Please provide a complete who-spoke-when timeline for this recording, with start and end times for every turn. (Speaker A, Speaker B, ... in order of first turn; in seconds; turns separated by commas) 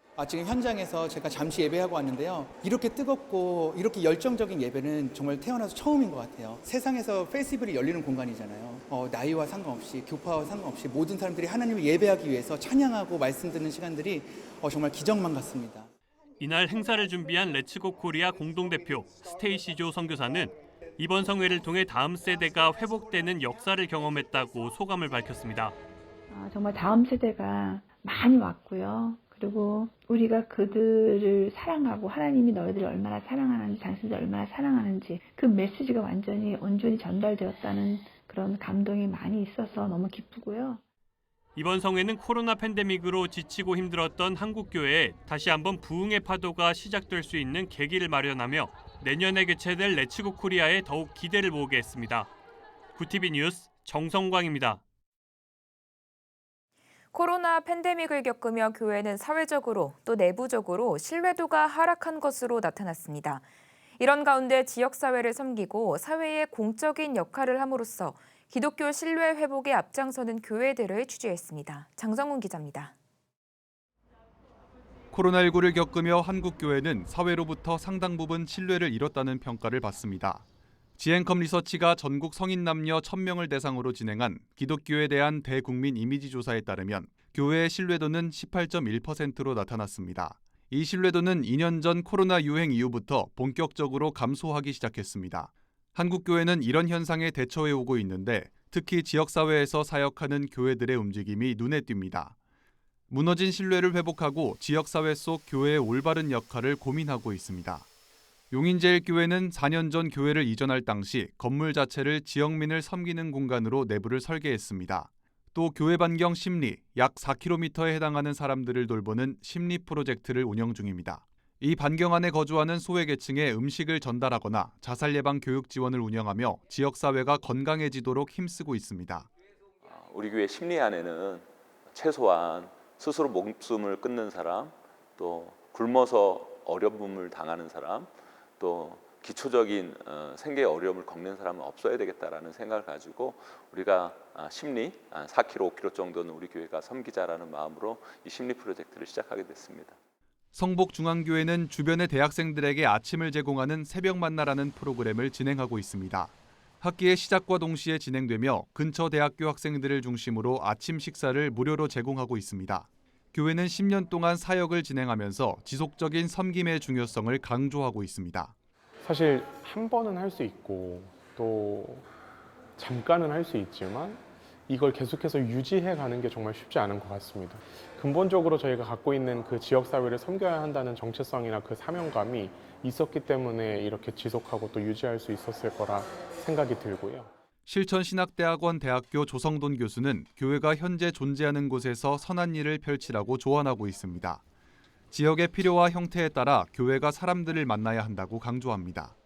Speaker A: 0.2-14.1, Speaker A: 14.8-15.8, Speaker B: 16.4-25.8, Speaker C: 26.3-40.8, Speaker B: 41.6-52.3, Speaker B: 53.0-54.8, Speaker D: 57.1-63.4, Speaker D: 64.0-72.9, Speaker E: 75.1-80.4, Speaker E: 81.0-102.3, Speaker E: 103.1-107.9, Speaker E: 108.5-129.3, Speaker F: 129.8-150.0, Speaker E: 150.5-168.6, Speaker G: 169.0-172.1, Speaker G: 172.8-187.3, Speaker E: 187.7-194.4, Speaker E: 195.1-199.2